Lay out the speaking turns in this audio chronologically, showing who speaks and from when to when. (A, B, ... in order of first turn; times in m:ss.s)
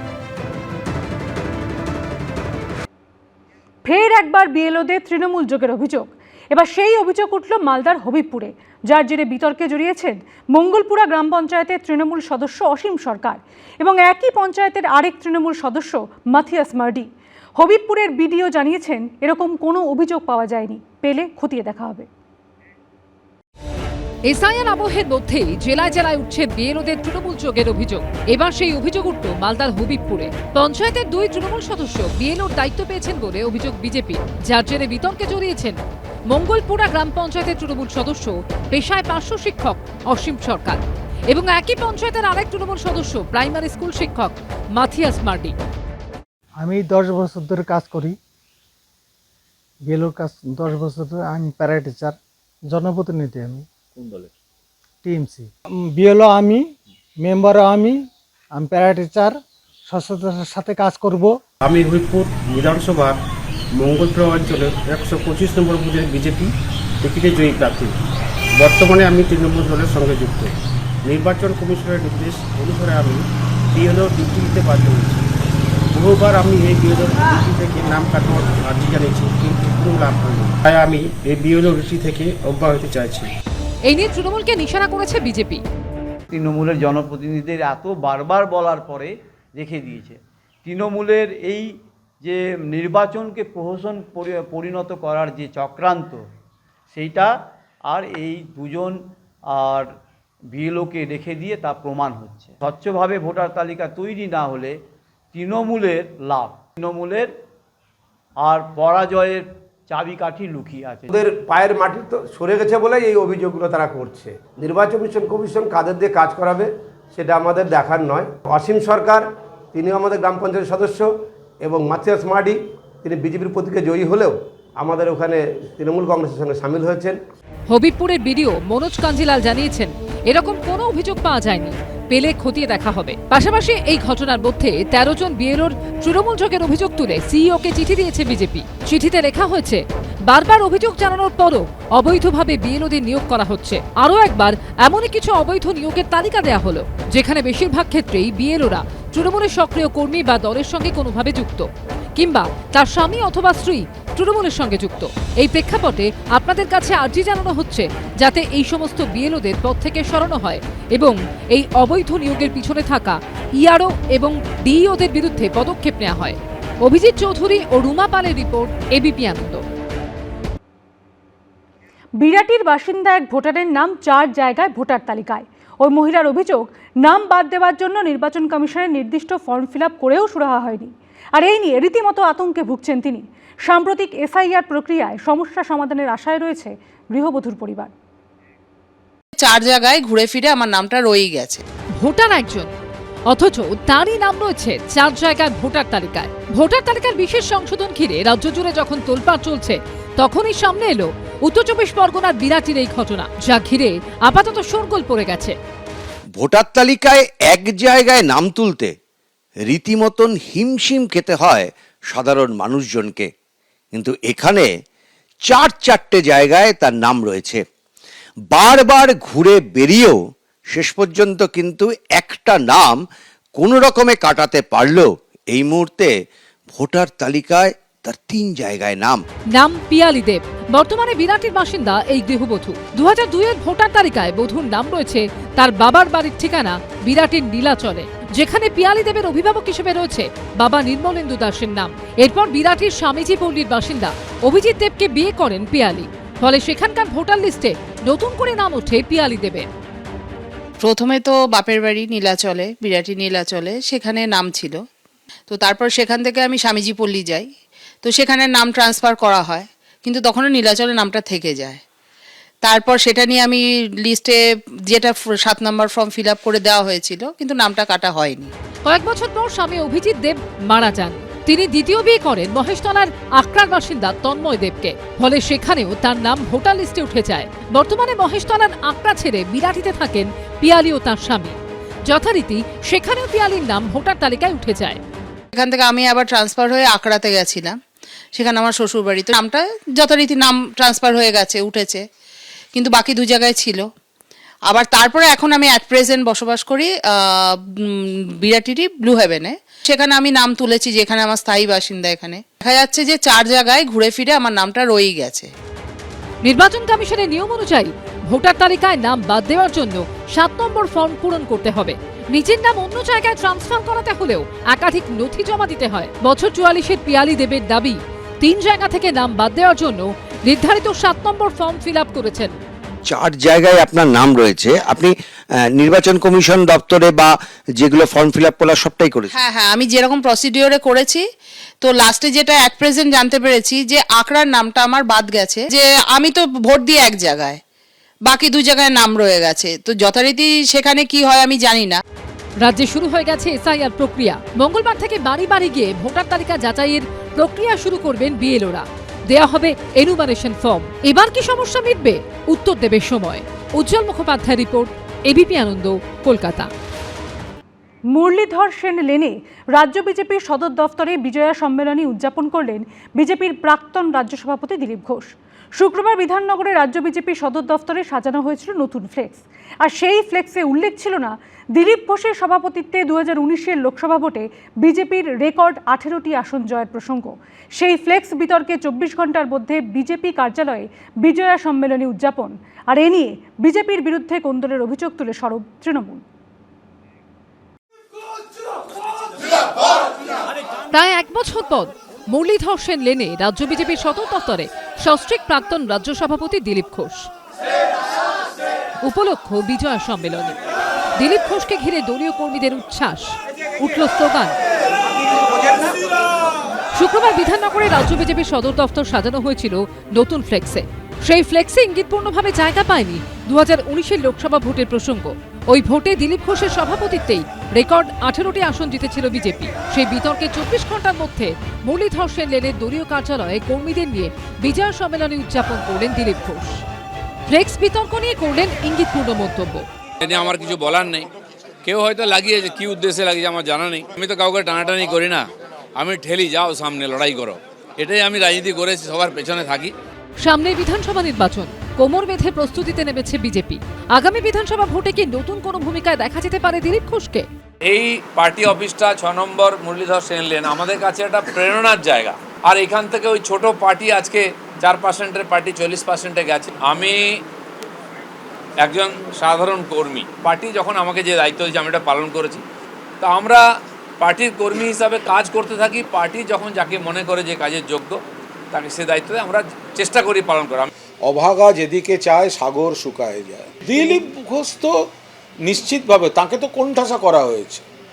0:03.8-0:22.1 A
0:24.3-0:35.8 B
0:36.3-0:40.8 B
0:41.3-0:45.5 B
0:46.6-0:48.2 C
0:49.8-0:53.7 C
0:55.0-1:01.4 C
1:01.7-1:03.2 D
1:03.8-1:06.5 D
1:07.0-1:07.9 D
1:08.6-1:10.5 D
1:11.1-1:13.2 D
1:13.8-1:15.2 D
1:15.9-1:23.3 D
1:23.8-1:25.6 B
1:26.3-1:31.7 E
1:32.2-1:36.2 E
1:36.9-1:37.3 E
1:37.9-1:39.0 E
1:39.5-1:39.9 E
1:40.5-1:44.7 E
1:45.3-1:47.3 E
1:48.4-1:51.1 E
1:51.1-2:01.1 F
2:01.6-2:07.2 F
2:07.7-2:49.6 B
2:52.2-3:07.9 A
3:09.4-3:11.6 G
3:12.0-3:12.7 B
3:13.3-3:25.6 B
3:26.4-3:28.9 H
3:29.7-3:33.3 H
3:34.0-3:34.7 H
3:35.5-3:37.6 H
3:38.5-3:40.1 H
3:40.7-3:43.0 H
3:43.6-3:46.1 H
3:46.8-3:49.2 H
3:49.6-4:09.7 B
4:10.8-4:14.8 G
4:15.5-4:17.5 G
4:18.0-4:21.8 G
4:22.6-4:24.4 G
4:24.9-4:28.5 G
4:28.9-4:41.6 B
4:42.1-4:45.0 B
4:45.5-4:47.8 G
4:48.4-4:52.0 G
4:52.8-4:53.9 G
4:54.7-5:05.5 G
5:06.4-5:22.6 B
5:23.1-5:25.1 H
5:25.8-5:29.4 H
5:29.3-5:31.2 G
5:31.8-5:37.6 G
5:38.3-5:42.0 G
5:42.6-5:56.7 B
5:58.1-6:26.2 A
6:30.9-6:37.3 B
6:39.0-6:40.6 B
6:41.2-6:44.6 B
6:47.0-7:06.8 B
7:07.5-7:09.8 B
7:10.2-7:11.3 I
7:11.8-7:19.9 I
7:20.4-7:27.5 B
7:27.8-7:37.4 I
7:38.8-7:42.6 I
7:43.2-7:43.6 I
7:44.2-7:48.2 I
7:48.7-7:50.9 I
7:51.3-7:54.9 J
7:55.7-7:57.8 J